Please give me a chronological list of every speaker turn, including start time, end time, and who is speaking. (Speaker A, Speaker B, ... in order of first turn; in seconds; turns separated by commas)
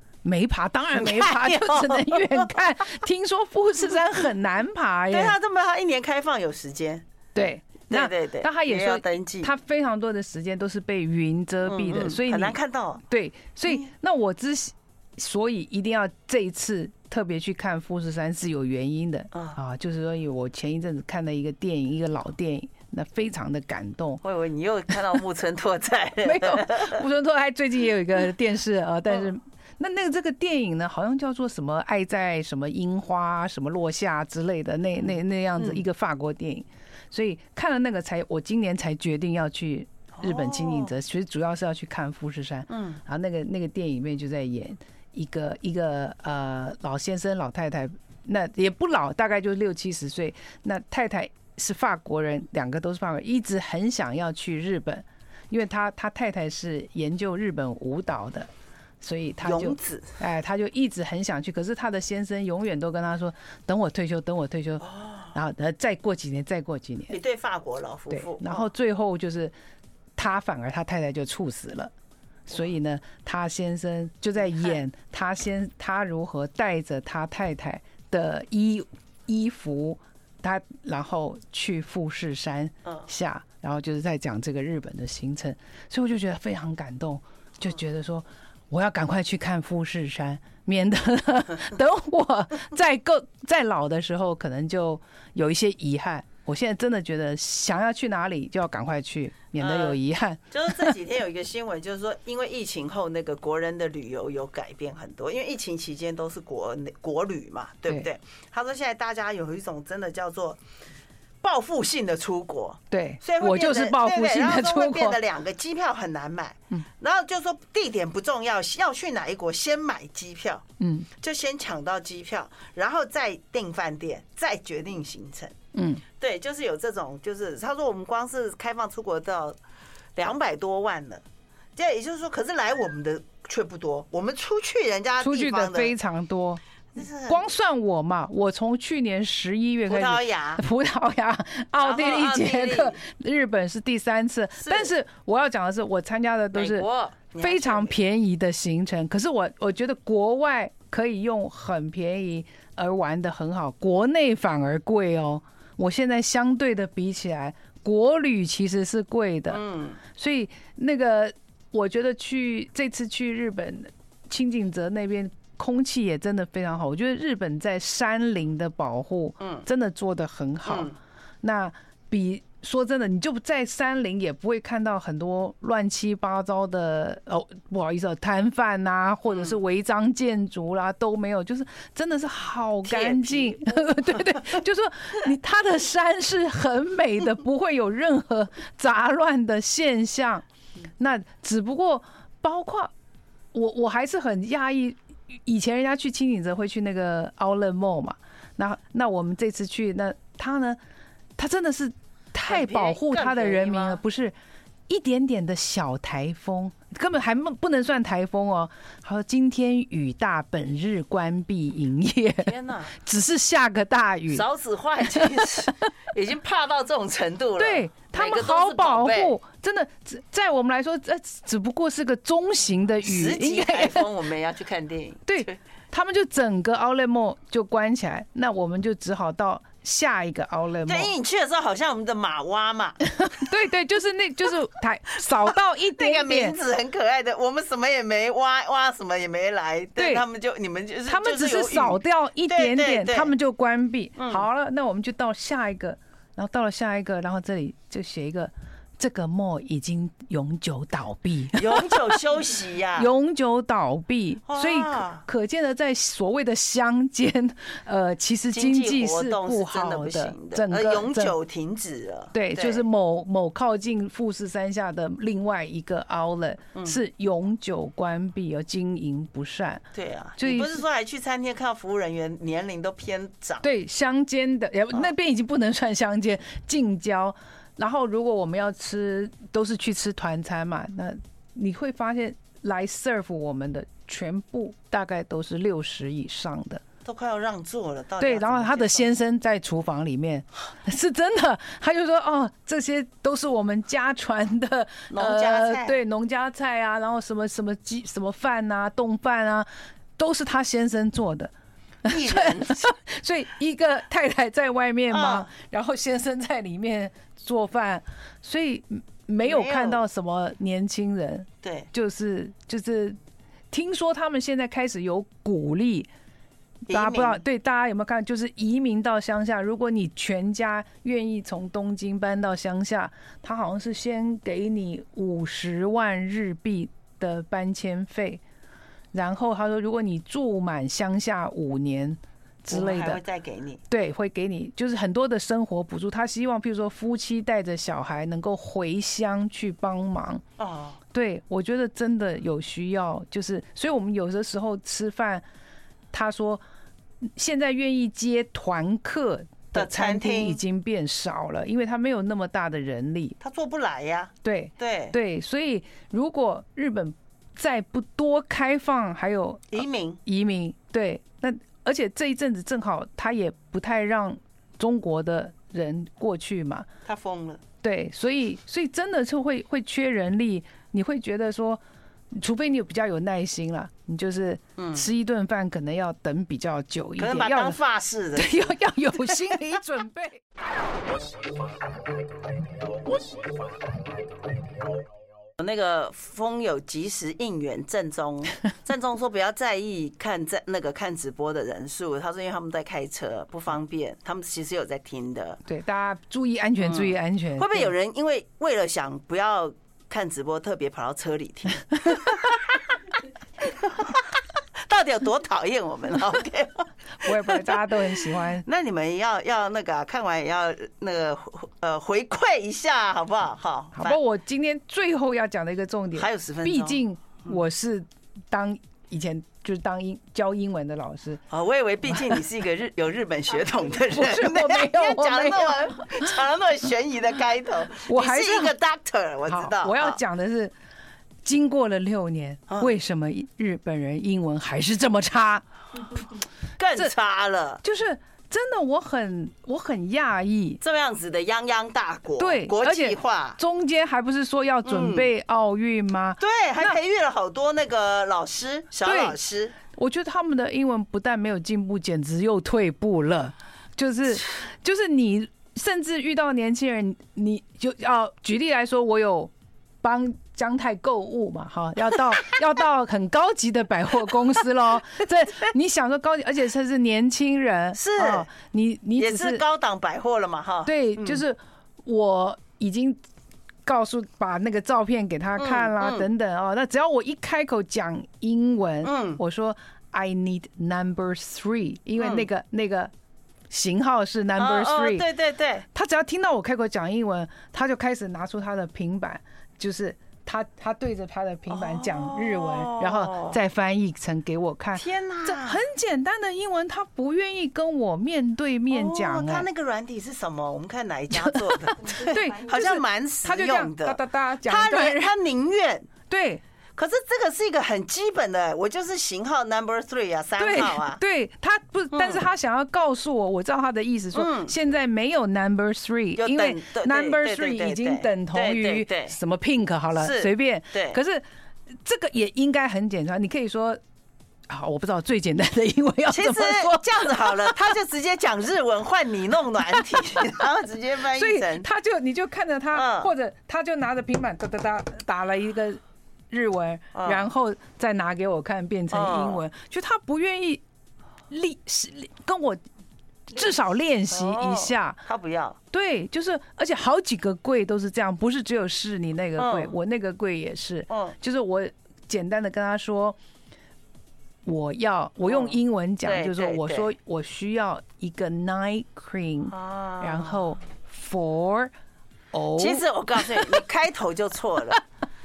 Speaker A: 0.2-5.3, Speaker B: 0.9-2.5, Speaker B: 5.1-7.0, Speaker A: 7.3-12.6, Speaker B: 7.9-9.5, Speaker B: 11.6-13.0, Speaker A: 13.1-24.2, Speaker B: 19.3-19.6, Speaker B: 24.2-27.0, Speaker A: 26.2-58.5, Speaker B: 40.2-40.9, Speaker B: 42.7-43.0, Speaker A: 59.0-67.2, Speaker B: 59.4-60.1, Speaker B: 64.8-65.3, Speaker B: 67.1-68.7, Speaker A: 68.1-69.5, Speaker A: 70.2-71.9, Speaker A: 72.5-100.9, Speaker B: 99.6-100.0, Speaker B: 100.5-110.6, Speaker B: 111.4-120.6, Speaker A: 112.9-115.2, Speaker A: 120.8-121.1, Speaker B: 121.2-125.5, Speaker A: 125.7-126.0, Speaker B: 126.2-129.6, Speaker B: 130.2-131.2, Speaker B: 131.8-135.9, Speaker A: 135.2-136.6, Speaker B: 136.9-137.4, Speaker A: 137.3-146.9, Speaker B: 139.9-140.6, Speaker B: 141.8-143.0, Speaker B: 144.6-144.9, Speaker B: 146.5-147.9, Speaker A: 147.4-190.4, Speaker B: 159.5-160.0, Speaker B: 169.4-169.6, Speaker B: 170.7-170.9, Speaker B: 179.3-179.5, Speaker B: 182.8-183.9, Speaker A: 191.0-192.9, Speaker A: 193.5-200.8, Speaker A: 201.4-204.3, Speaker B: 202.5-204.0, Speaker A: 204.9-214.4, Speaker B: 212.4-212.9, Speaker B: 214.3-219.3, Speaker A: 215.1-215.7, Speaker A: 217.6-224.1, Speaker B: 223.0-225.6, Speaker A: 225.3-231.1, Speaker B: 230.8-233.0, Speaker A: 233.2-236.6, Speaker B: 235.5-243.3, Speaker A: 240.0-240.2, Speaker A: 241.1-252.2, Speaker B: 244.2-244.4, Speaker B: 251.5-253.1, Speaker A: 252.9-261.3, Speaker B: 254.5-255.2, Speaker B: 258.5-262.8, Speaker A: 262.3-269.8, Speaker B: 266.7-267.0, Speaker B: 269.9-273.6, Speaker A: 270.4-270.8, Speaker A: 273.6-286.8, Speaker B: 287.0-289.1, Speaker A: 288.2-301.5, Speaker B: 295.1-296.0, Speaker B: 302.0-302.9, Speaker A: 302.0-313.2, Speaker B: 305.1-305.5, Speaker B: 309.4-310.0, Speaker B: 311.6-311.9, Speaker A: 313.7-316.1, Speaker B: 316.9-317.4, Speaker A: 316.9-328.4, Speaker A: 329.1-333.2, Speaker B: 332.7-333.8, Speaker A: 333.9-340.4, Speaker B: 340.6-341.0, Speaker A: 341.1-345.4, Speaker A: 346.1-346.6, Speaker A: 347.2-353.4, Speaker B: 349.7-350.6, Speaker B: 353.4-355.1, Speaker A: 354.4-366.9, Speaker B: 359.7-360.2, Speaker B: 367.1-367.6, Speaker A: 367.8-377.8, Speaker B: 374.8-375.1, Speaker B: 377.2-378.8, Speaker A: 378.4-380.4, Speaker B: 385.6-395.6, Speaker A: 395.6-397.9, Speaker B: 396.8-402.7, Speaker B: 403.6-414.2, Speaker A: 407.2-408.6, Speaker A: 413.9-421.4, Speaker B: 416.1-417.0, Speaker B: 421.5-430.2, Speaker A: 422.1-422.4, Speaker A: 424.0-426.4, Speaker A: 428.1-428.7, Speaker A: 429.5-430.7, Speaker A: 431.4-435.6, Speaker B: 432.7-432.9, Speaker B: 436.8-437.8, Speaker A: 437.8-440.8, Speaker B: 440.8-443.6, Speaker A: 442.4-447.0, Speaker B: 444.8-445.3, Speaker B: 446.4-449.7, Speaker A: 449.0-449.4, Speaker A: 449.9-469.6, Speaker B: 467.9-468.5, Speaker B: 469.2-471.4, Speaker A: 470.8-473.2, Speaker A: 473.9-483.1, Speaker B: 475.6-476.3, Speaker B: 479.0-479.4, Speaker B: 482.2-482.5, Speaker A: 483.7-485.2, Speaker B: 484.6-485.8, Speaker A: 485.9-499.7, Speaker B: 491.7-493.6, Speaker B: 494.9-495.8, Speaker B: 498.9-506.1, Speaker A: 501.3-505.3, Speaker A: 506.3-506.6, Speaker B: 506.9-511.2, Speaker A: 510.6-524.0, Speaker B: 512.1-512.4, Speaker B: 514.3-514.7, Speaker B: 516.4-519.4, Speaker B: 520.1-521.2, Speaker A: 524.7-527.8, Speaker B: 526.3-531.9, Speaker A: 529.9-530.6, Speaker A: 531.3-540.8, Speaker B: 532.9-533.3, Speaker B: 537.1-537.5, Speaker B: 539.1-539.6, Speaker A: 541.5-542.8, Speaker A: 543.5-545.2, Speaker B: 544.3-545.8, Speaker A: 545.9-553.4, Speaker B: 549.6-549.9, Speaker B: 551.1-551.3, Speaker A: 554.6-561.9, Speaker B: 555.4-557.1, Speaker B: 559.7-560.6, Speaker A: 562.5-563.8, Speaker B: 562.8-565.0